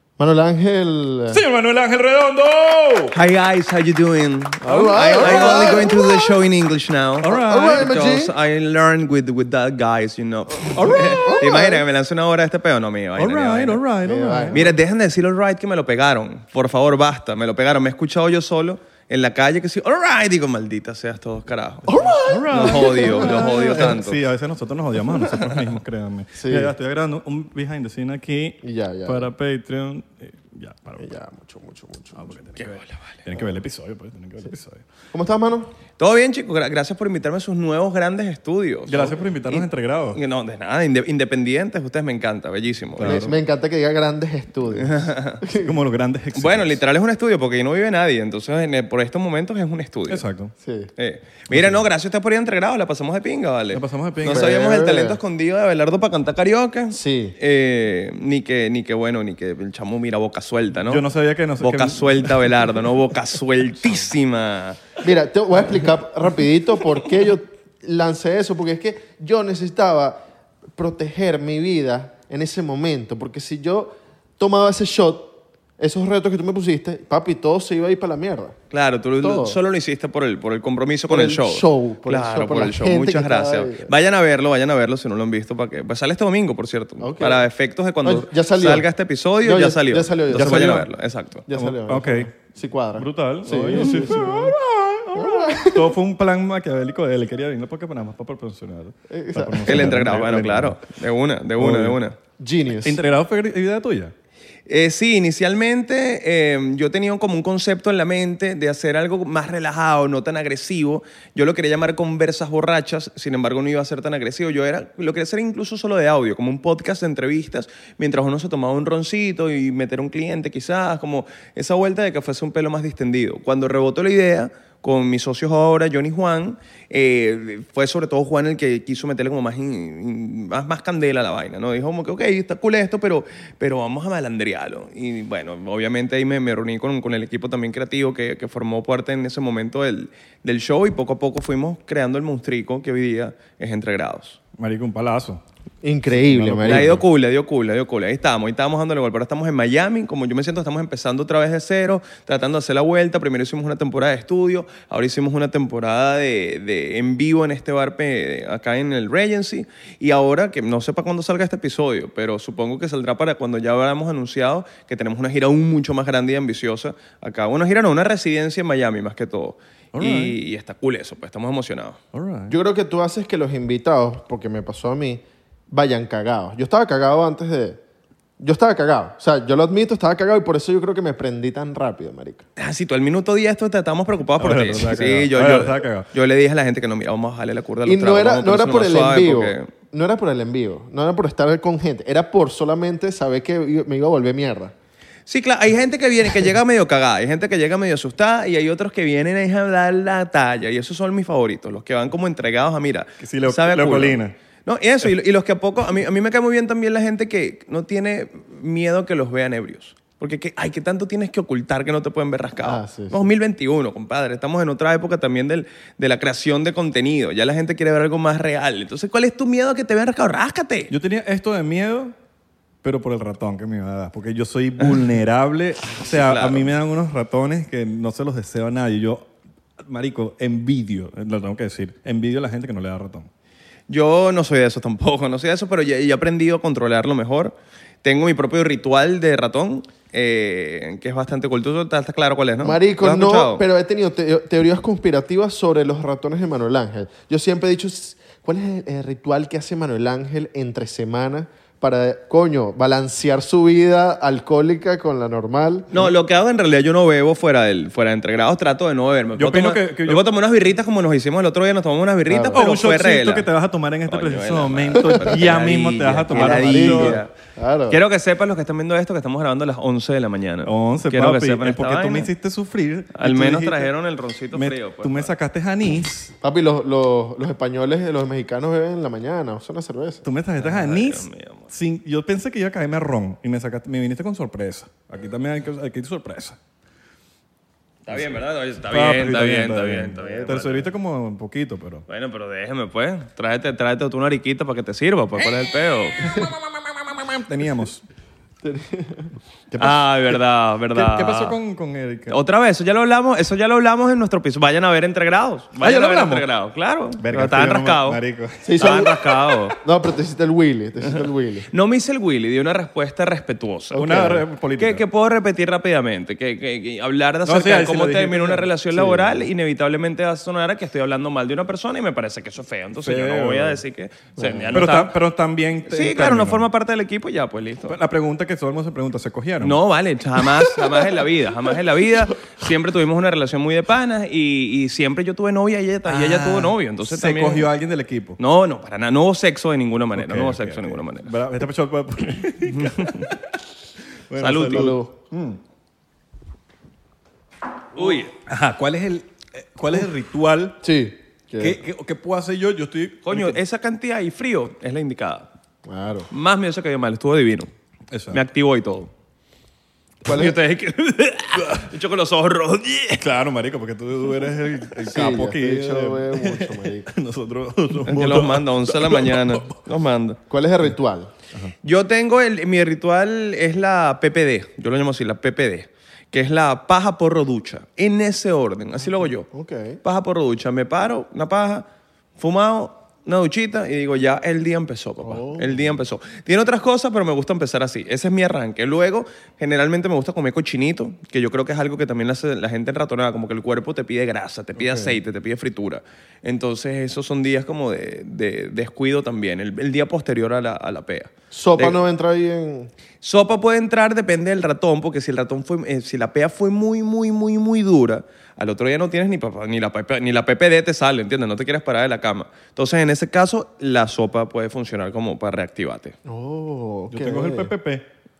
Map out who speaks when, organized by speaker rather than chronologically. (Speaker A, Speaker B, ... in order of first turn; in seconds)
Speaker A: 0.2-1.4, 4.6-6.3, 7.3-8.3, 10.9-11.8, 14.0-14.8, 21.9-23.6, 26.4-26.7, 28.6-29.3, 31.0-32.4, 35.1-35.7, 43.0-45.7, 50.6-50.9, 54.2-55.2, 56.9-57.4, 65.0-70.2, 70.8-78.6, 79.2-79.6, 81.1-83.9, 87.0-87.5, 88.0-88.9, 89.4-90.8, 91.5-94.6, 95.1-95.9, 99.1-100.0, 102.4-103.0, 145.8-147.0, 172.5-177.8, 178.4-182.4, 187.8-194.7, 212.6-213.3, 242.6-255.9, 262.3-262.6, 265.0-265.3, 266.3-268.0, 276.4-280.3, 298.6-299.3, 308.6-309.1, 309.8-311.7, 313.9-314.4, 324.4-324.8, 344.6-345.1, 350.8-351.8, 355.8-356.3, 360.2-360.6, 365.1-367.1, 370.5-371.3, 379.2-380.0, 385.2-385.9, 394.8-395.2, 401.5-402.9, 416.2-417.7
Speaker B: 1.3-3.1, 4.7-5.9, 7.2-8.0, 10.7-11.5, 13.2-14.6, 22.3-31.1, 32.1-34.8, 38.9-40.2, 43.0-43.3, 45.5-46.8, 50.1-50.5, 51.5-51.8, 53.7-54.5, 60.9-62.7, 90.3-90.8, 91.5-92.3, 93.0-100.9, 101.6-102.0, 102.7-104.1, 144.6-145.4, 146.1-147.0, 169.9-170.4, 172.1-172.5, 184.4-186.1, 203.2-204.3, 220.9-222.1, 222.8-229.3, 229.8-233.3, 259.4-260.2, 262.5-267.2, 270.6-273.9, 274.5-276.3, 280.2-286.6, 288.1-292.0, 296.2-298.0, 299.7-302.4, 305.8-306.5, 307.2-309.1, 313.9-315.0, 317.4-319.0, 323.0-323.8, 324.7-326.7, 327.9-329.8, 336.1-338.4, 340.1-343.4, 344.3-345.6, 347.9-350.8, 351.6-353.6, 358.1-358.4, 361.6-361.9, 363.2-369.8, 417.1-418.0
Speaker C: 3.1-13.8, 14.5-24.2, 32.6-33.1, 36.0-43.3, 44.8-45.4, 46.3-50.2, 51.0-61.0, 61.6-64.8, 78.7-91.5, 99.6-102.1, 104.7-144.4, 146.7-172.0, 182.6-189.7, 195.3-220.9, 226.0-226.7, 233.9-243.6, 255.9-263.5, 264.1-267.3, 267.9-272.3, 273.1-275.3, 280.6-281.7, 288.1-290.9, 292.1-296.5, 299.8-301.6, 302.3-308.2, 308.8-309.8, 311.7-314.1, 314.8-325.1, 325.9-328.0, 329.6-337.7, 338.4-341.3, 342.6-343.3, 344.4-344.9, 347.9-348.3, 353.2-355.5, 356.3-357.7, 358.3-359.1, 360.2-363.2, 368.0-370.4, 371.8-379.5, 380.0-381.9, 382.4-402.0, 403.2-416.1